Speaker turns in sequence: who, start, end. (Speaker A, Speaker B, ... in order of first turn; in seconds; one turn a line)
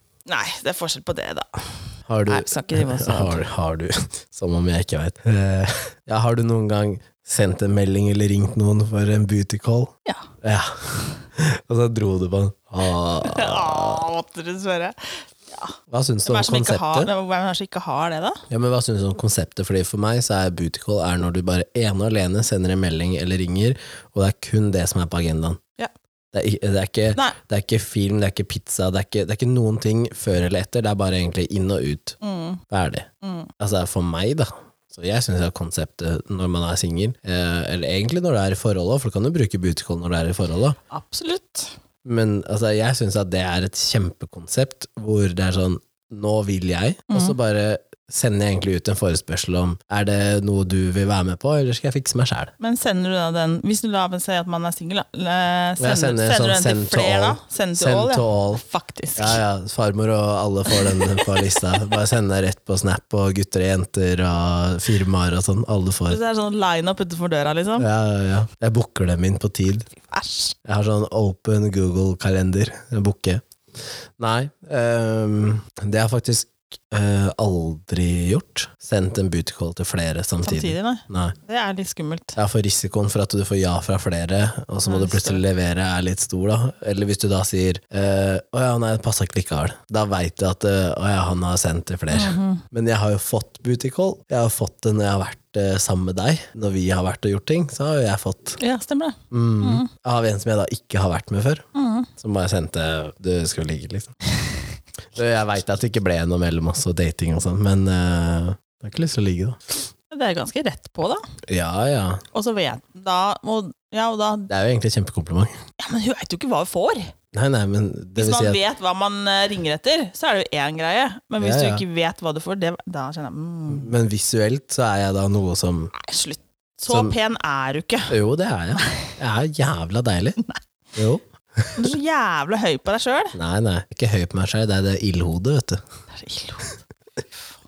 Speaker A: 0.3-3.5
Speaker B: 2.1-14.0
Speaker A: 13.1-18.4
Speaker B: 15.9-17.1
Speaker B: 18.5-25.6
Speaker B: 26.3-32.2
Speaker A: 32.2-32.6
Speaker B: 32.7-33.1
Speaker A: 33.2-33.5
Speaker B: 33.6-40.8
Speaker A: 40.9-41.7
Speaker B: 42.0-52.5
Speaker A: 47.1-47.4
Speaker A: 52.6-59.4
Speaker B: 55.8-58.6
Speaker B: 59.1-66.2
Speaker A: 60.7-61.8
Speaker A: 66.1-67.9
Speaker B: 67.8-69.9
Speaker A: 70.0-70.6
Speaker B: 70.6-81.3
Speaker A: 80.4-82.4
Speaker B: 82.4-98.6
Speaker A: 84.8-85.4
Speaker A: 92.1-92.6
Speaker A: 98.6-99.9
Speaker B: 99.3-101.6
Speaker A: 101.7-102.1
Speaker B: 102.2-104.1
Speaker B: 105.1-109.6
Speaker A: 110.1-111.2
Speaker B: 111.5-112.2
Speaker A: 112.3-114.5
Speaker B: 114.5-115.5
Speaker A: 115.8-117.1
Speaker B: 117.3-118.6
Speaker A: 118.2-123.9
Speaker B: 121.4-121.8
Speaker B: 123.7-125.9
Speaker A: 125.9-128.1
Speaker B: 126.9-127.2
Speaker B: 128.1-130.4
Speaker A: 128.8-129.1
Speaker B: 130.9-131.9
Speaker A: 131.7-133.3
Speaker B: 133.3-135.8
Speaker A: 136.1-136.8